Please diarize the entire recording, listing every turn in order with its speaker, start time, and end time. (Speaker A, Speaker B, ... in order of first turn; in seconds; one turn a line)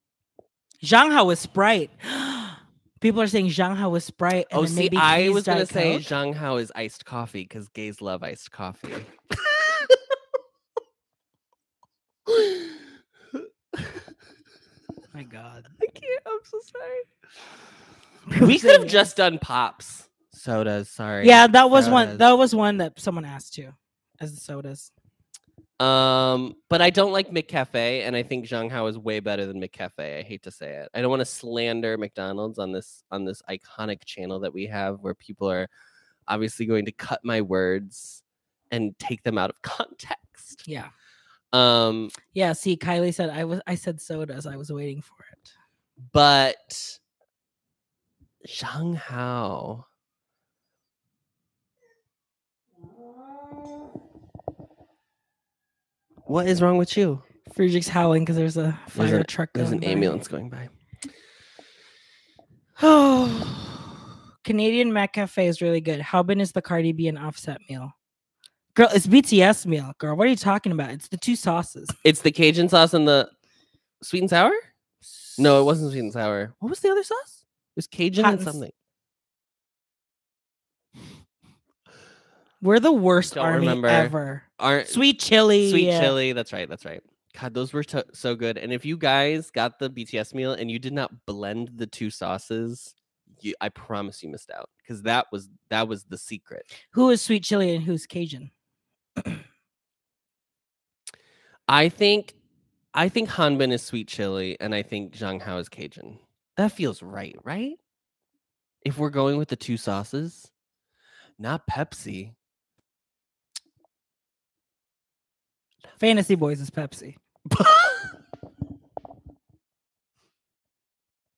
Speaker A: 0.8-6.1
Speaker B: 4.5-10.0
Speaker B: 12.3-14.1
Speaker A: 15.1-15.7
Speaker B: 15.8-17.1
Speaker A: 18.3-19.1
Speaker B: 18.4-22.3
Speaker A: 21.2-24.9
Speaker B: 25.8-35.7
Speaker B: 36.3-40.6
Speaker A: 40.6-40.9
Speaker B: 41.5-42.1
Speaker A: 42.3-45.5
Speaker B: 46.1-47.0
Speaker B: 48.4-49.9
Speaker B: 56.3-57.2
Speaker A: 57.5-60.1
Speaker B: 59.0-60.7
Speaker A: 62.8-63.9
Speaker A: 64.4-67.9
Speaker A: 68.8-72.0
Speaker B: 72.0-73.3
Speaker B: 74.0-74.6
Speaker A: 75.0-75.7
Speaker B: 75.4-78.7
Speaker A: 78.2-78.6
Speaker A: 82.6-86.2
Speaker B: 83.2-85.0
Speaker B: 85.6-96.7
Speaker A: 96.9-98.5
Speaker A: 99.2-99.4
Speaker B: 101.7-102.4
Speaker B: 102.9-107.8
Speaker B: 108.8-110.5
Speaker B: 111.4-112.3
Speaker A: 116.0-117.2
Speaker B: 117.5-118.1